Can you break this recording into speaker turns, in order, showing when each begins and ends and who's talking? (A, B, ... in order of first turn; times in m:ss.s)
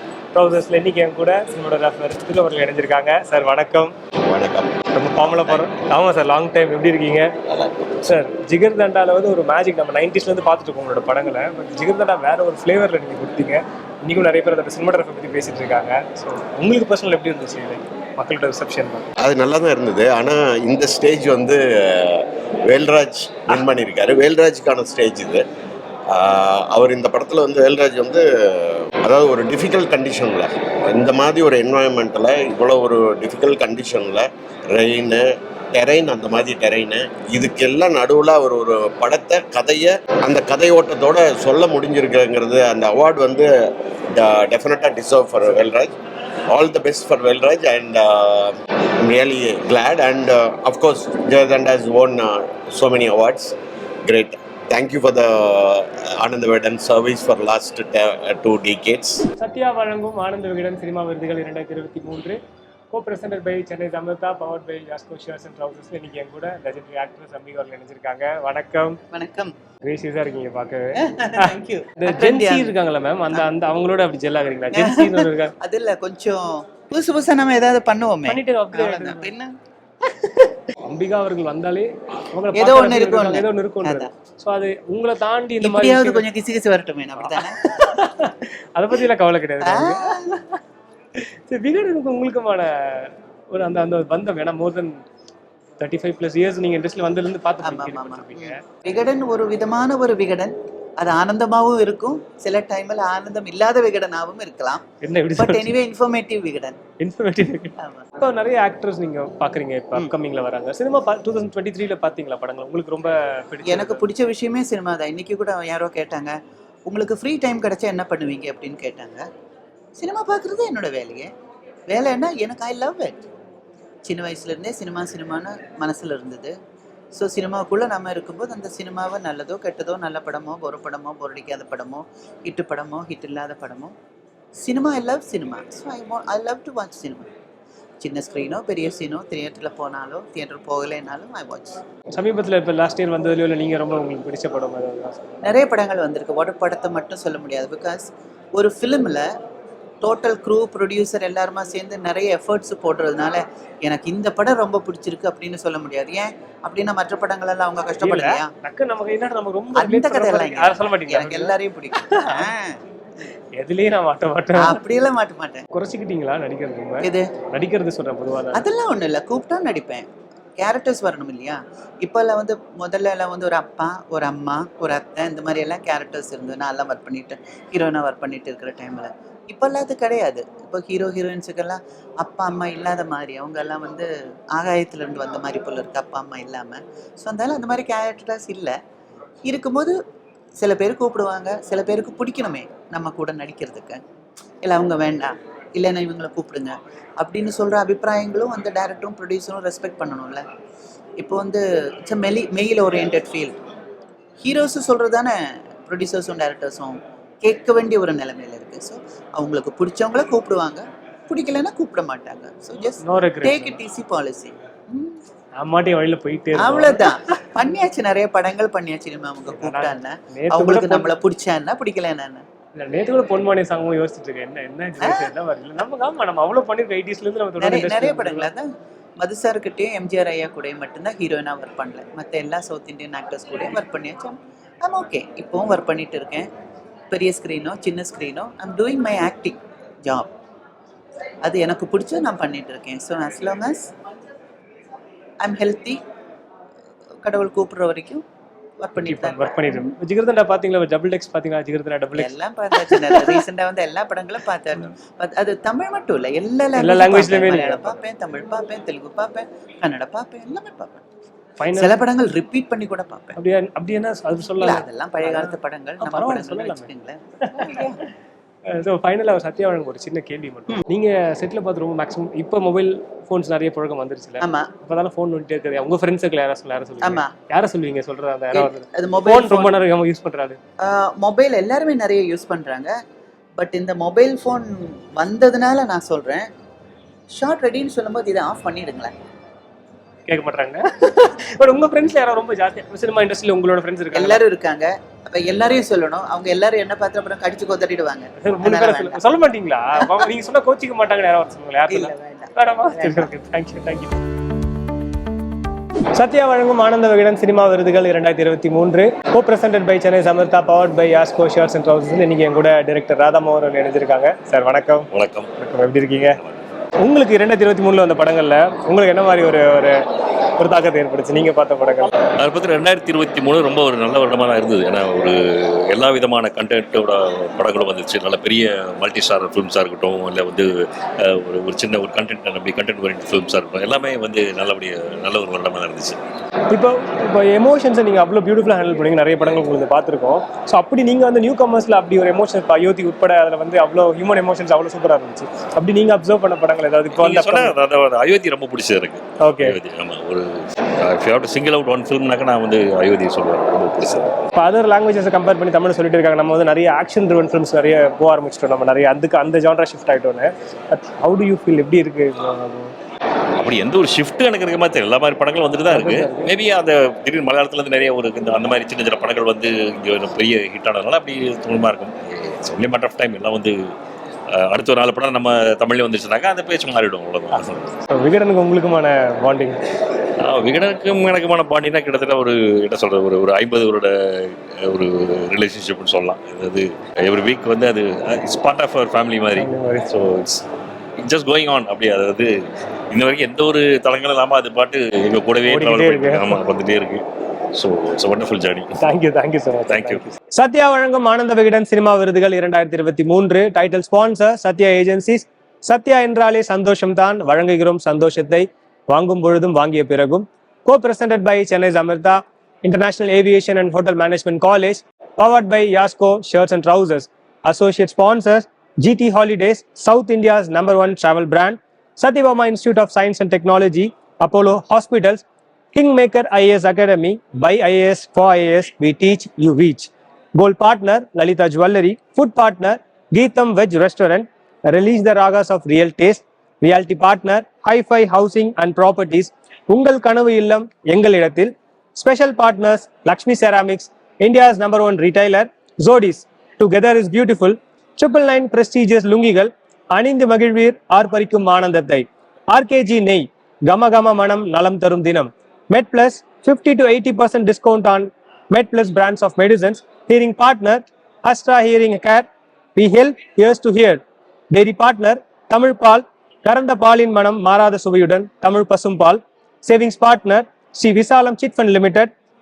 0:00.3-0:03.9 A
0:04.3-0:05.7 B
0:05.0-0:07.3 A
0:07.5-0:08.0 B
0:08.1-0:19.1 A
0:19.2-0:25.4 B
0:26.1-0:46.0 B
0:46.5-0:53.6 B
0:54.1-0:59.2 B
0:59.4-1:02.4 A
1:02.9-1:09.0 A
1:09.1-1:09.5 C
1:09.8-1:15.5 A
1:11.0-1:12.7 C
1:14.7-1:19.6 C
1:18.3-1:19.3 A
1:20.2-1:20.5 C
1:20.8-1:26.2 A
1:22.5-1:24.1 C
1:25.6-1:27.8 C
1:27.2-1:30.1 A
1:29.6-1:30.6 C
1:31.5-1:35.0 A
1:35.8-1:38.6 A
1:37.6-1:44.8 C
1:45.0-1:45.7 A
1:45.4-1:46.8 C
1:47.0-1:54.0 A
1:47.8-1:48.0 C
1:53.6-1:56.4 C
1:56.9-1:59.2 C
2:00.0-2:01.3 C
2:01.9-2:03.2 C
2:04.1-2:06.6 C
2:07.2-2:13.9 C
2:14.6-2:17.3 C
2:18.0-2:21.8 C
2:22.2-2:25.4 A
2:25.4-2:28.0 C
2:28.6-2:29.3 C
2:30.0-2:38.5 C
2:38.0-2:41.5 A
2:39.8-2:42.8 C
2:42.1-2:42.5 A
2:43.6-2:44.8 A
2:44.6-2:45.7 C
2:45.7-2:48.7 A
2:47.0-2:47.3 C
2:48.5-2:50.1 C
2:50.6-3:08.7 C
3:09.4-3:10.0 C
3:10.6-3:14.0 C
3:14.6-3:20.4 C
3:21.2-3:23.6 C
3:24.4-3:35.2 C
3:33.0-3:33.8 A
3:35.6-3:37.1 A
3:36.5-3:42.4 C
3:39.5-3:41.1 A
3:42.8-3:48.5 A
3:45.0-3:45.3 C
3:47.6-3:56.5 C
3:57.1-4:00.3 C
4:01.4-4:03.9 C
4:05.4-4:06.0 C
4:07.2-4:08.2 C
4:08.8-4:09.9 C
4:09.0-4:13.4 A
4:12.2-4:21.0 C
4:16.8-4:18.0 A
4:21.6-4:22.0 A
4:21.7-4:23.4 C
4:23.4-4:26.9 A
4:24.5-4:28.0 C
4:27.4-4:27.9 A
4:28.7-4:40.6 A
4:34.4-4:34.7 C
4:37.0-4:37.3 C
4:38.5-4:39.8 C
4:40.8-4:42.9 C
4:43.6-4:46.5 C
4:47.3-4:49.1 C
4:50.3-4:54.4 A
4:54.1-4:59.2 C
4:58.4-5:04.2 A
5:01.9-5:03.3 C
5:06.2-5:16.4 A
5:15.1-5:15.5 D
5:16.2-5:16.6 D
5:17.0-5:20.0 A
5:20.6-5:22.1 A
5:22.4-5:36.2 D
5:36.7-5:47.8 A
5:47.2-5:54.4 D
5:49.4-5:49.8 A
5:54.6-6:02.9 A
6:03.6-6:13.9 D
6:05.9-6:06.5 A
6:14.5-6:18.0 D
6:18.1-6:19.8 A
6:20.4-6:30.6 D
6:29.6-6:30.1 A
6:31.2-6:32.5 D
6:33.1-6:38.9 D
6:35.7-6:36.6 A
6:39.0-7:52.3 A
6:39.9-6:40.2 D